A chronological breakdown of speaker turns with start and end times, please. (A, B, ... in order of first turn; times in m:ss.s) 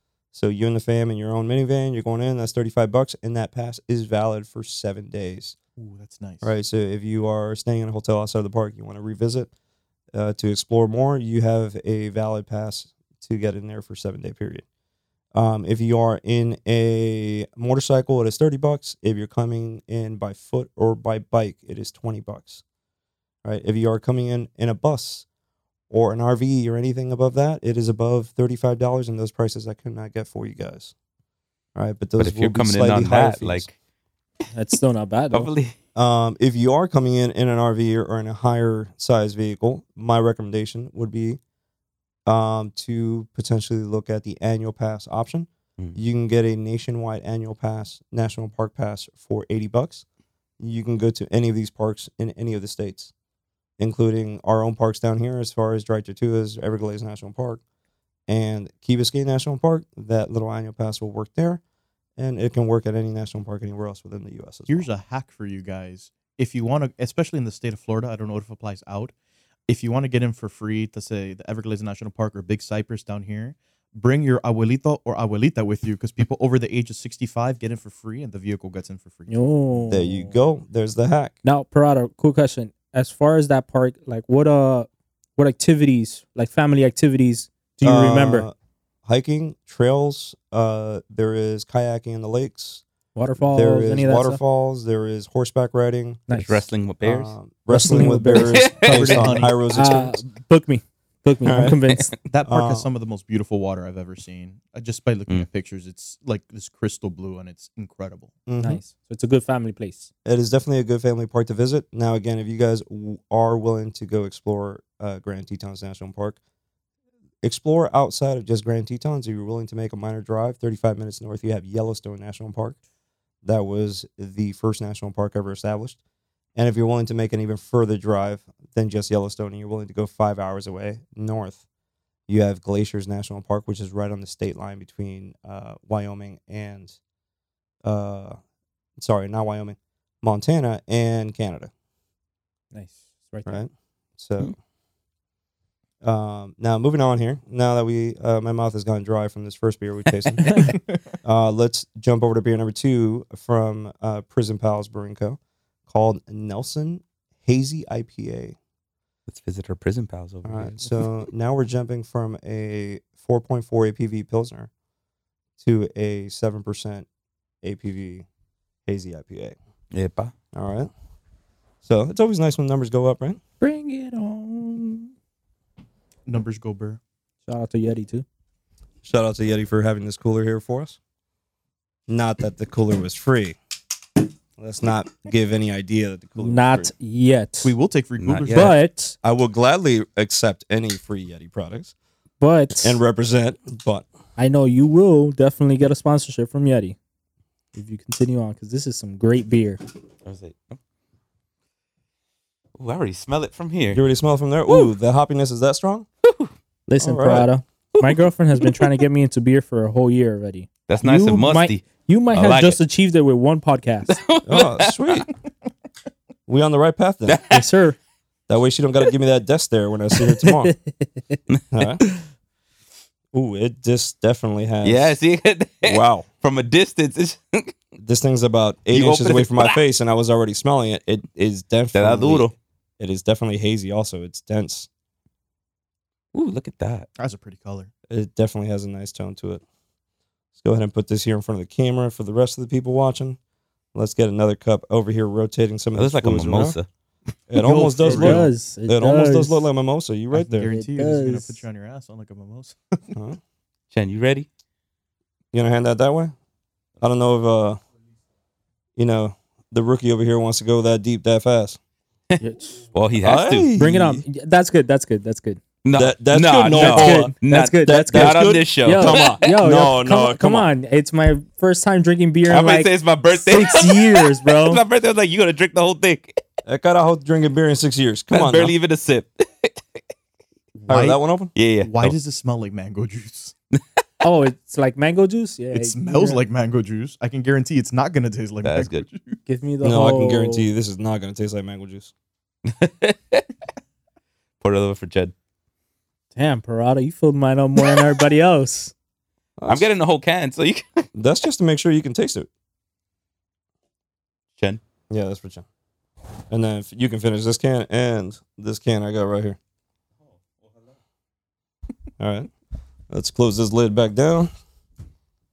0:00.3-0:05.6 A
0:05.8-0:06.5 B
0:06.4-0:09.5 A
0:10.1-0:14.6 A
0:15.3-0:22.6 A
0:23.4-0:25.3 A
0:25.9-0:30.9 A
0:31.8-0:33.7 A
0:32.2-0:33.8 C
0:34.5-0:35.5 D
0:35.3-0:35.7 C
0:36.0-0:41.4 A
0:42.3-0:50.0 A
0:50.6-0:53.1 A
0:53.8-0:57.6 A
0:58.3-1:01.6 A
1:02.2-1:04.9 A
1:04.7-1:09.1 B
1:09.7-1:19.4 B
1:19.3-1:20.4 D
1:19.9-1:21.4 A
1:21.4-1:28.5 D
1:27.8-1:28.5 A
1:29.0-1:32.8 A
1:33.2-1:34.4 D
1:33.4-1:36.3 A
1:36.3-1:36.6 D
1:36.3-1:37.4 C
1:37.0-1:40.2 A
1:37.7-1:38.6 D
1:38.4-1:39.4 C
1:38.9-1:39.6 B
1:39.7-1:42.1 D
1:41.4-1:41.8 A
1:42.3-1:48.3 B
1:42.5-1:42.9 A
1:48.5-1:48.8 A
1:48.6-1:50.1 D
1:50.2-1:56.4 A
1:57.4-2:02.8 A
2:03.4-2:06.0 A
2:06.6-2:11.6 A
2:12.3-2:17.0 A
2:17.8-2:18.4 A
2:19.0-2:21.7 A
2:22.7-2:23.6 D
2:23.5-2:24.5 A
2:26.0-2:38.6 A
2:39.3-2:41.1 C
2:40.4-2:44.7 A
2:45.6-2:47.1 A
2:47.6-2:48.3 A
2:48.9-2:49.6 A
2:49.9-2:50.3 C
2:50.5-2:50.9 A
2:51.8-2:53.4 A
2:53.6-2:55.1 D
2:56.3-2:57.0 B
2:57.5-2:58.2 D
2:59.0-3:01.0 A
3:02.1-3:03.6 A
3:04.6-3:06.9 A
3:06.4-3:07.8 D
3:07.6-3:08.8 B
3:08.2-3:08.7 C
3:08.5-3:09.2 D
3:09.2-3:11.9 A
3:12.4-3:13.0 D
3:12.8-3:14.1 A
3:14.4-3:17.0 D
3:17.8-3:19.8 D
3:20.2-3:20.8 C
3:22.8-3:24.0 C
3:23.9-3:26.1 A
3:26.2-3:26.5 C
3:26.9-3:34.2 D
3:27.0-3:27.5 A
3:27.9-3:28.9 C
3:30.9-3:32.8 C
3:34.1-3:35.3 C
3:34.5-3:35.3 A
3:36.5-3:37.4 A
3:37.3-3:37.6 C
3:37.5-3:38.0 D
3:38.5-3:40.8 A
3:40.6-3:41.4 D
3:41.7-3:42.0 A
3:43.3-3:45.2 A
3:44.8-3:47.7 C
3:45.8-3:46.3 A
3:48.0-3:52.5 A
3:48.9-3:49.8 C
3:51.9-3:52.6 C
3:53.0-3:54.9 A
3:56.3-3:57.1 C
3:57.2-3:57.9 B
3:58.1-3:59.6 A
4:00.6-4:03.4 A
4:04.0-4:06.8 A
4:06.0-4:06.9 C
4:07.5-4:10.7 A
4:07.6-4:08.5 B
4:08.0-4:09.7 D
4:10.3-4:13.1 B
4:10.6-4:11.6 D
4:13.1-4:13.4 A
4:13.9-4:14.5 C
4:15.5-4:16.3 A
4:17.0-4:17.8 A
4:19.0-4:21.8 A
4:22.4-4:22.8 D
4:22.9-4:23.7 C
4:23.2-4:24.2 A
4:23.8-4:25.6 D
4:25.8-4:29.5 C
4:26.0-4:27.3 A
4:26.7-4:34.8 D
4:27.8-4:30.7 A
4:32.5-4:36.4 C
4:36.7-4:38.7 A
4:38.3-4:40.0 C
4:40.8-4:41.2 B
4:40.9-4:41.5 A
4:41.6-4:42.2 C
4:41.8-4:43.5 B
4:44.2-4:46.4 D
4:45.7-4:49.4 B
4:48.6-4:49.0 C
4:49.5-4:50.7 D
4:49.8-4:52.1 A
4:52.6-4:53.5 C
4:54.6-4:55.3 C
4:56.4-4:58.9 D
4:59.6-4:59.9 A
4:59.7-5:01.1 C
5:01.2-5:02.5 A
5:05.1-5:05.6 A
5:06.5-5:09.6 A
5:12.2-5:12.5 A
5:13.1-5:14.5 A